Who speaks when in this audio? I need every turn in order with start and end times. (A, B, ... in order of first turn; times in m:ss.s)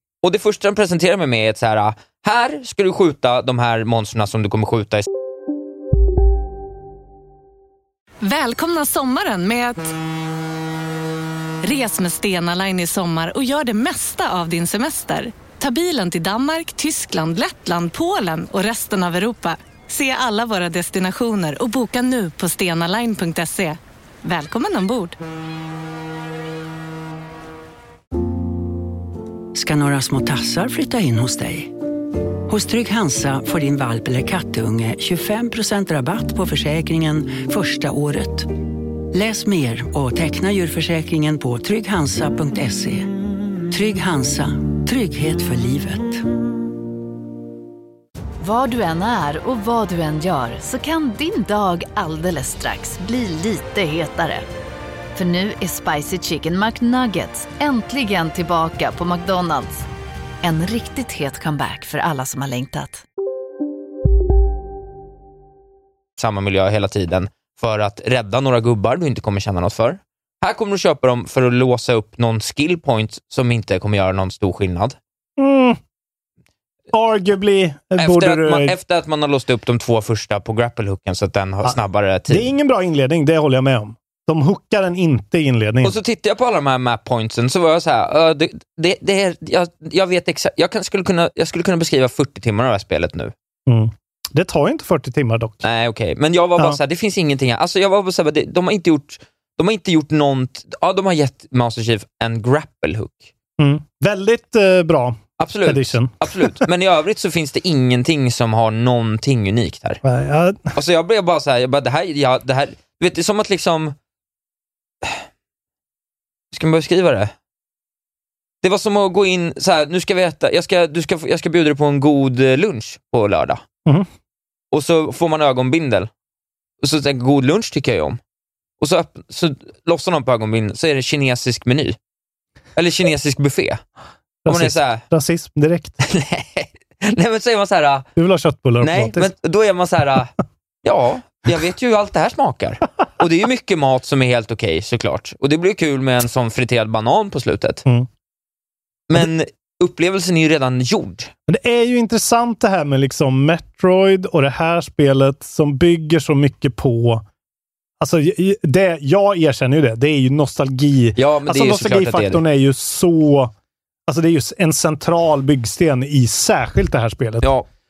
0:00.2-0:05.1 A
0:08.2-0:09.9 B
0:11.6-0:25.2 B
0:29.5-0:31.7 C
0:32.5-0:38.5 C
0:39.1-0:43.1 C
0:43.7-0:46.2 C
0:48.4-0:54.4 D
0:55.2-0:59.9 D
1:00.4-1:03.0 D
1:06.2-1:15.0 A
1:15.4-1:15.8 E
1:16.9-1:18.8 E
1:18.0-1:22.5 A
1:22.3-1:26.0 E
1:25.8-1:33.3 A
1:33.7-1:35.6 E
1:35.6-1:43.3 A
1:43.6-1:46.6 E
1:45.4-1:50.0 A
1:50.0-1:50.7 E
1:50.7-1:54.0 A
1:56.5-1:57.3 A
1:58.6-2:03.6 A
2:04.7-2:06.1 A
2:06.8-2:08.2 A
2:08.8-2:12.0 A
2:12.8-2:13.8 A
2:14.4-2:16.0 E
2:14.5-2:15.0 A
2:16.0-2:18.1 A
2:18.2-2:19.3 E
2:18.8-2:20.3 A
2:20.8-2:27.8 A
2:29.1-2:31.3 A
2:31.5-2:37.2 E
2:38.0-2:43.5 E
2:41.2-2:42.4 A
2:44.1-2:47.5 E
2:47.4-2:47.7 A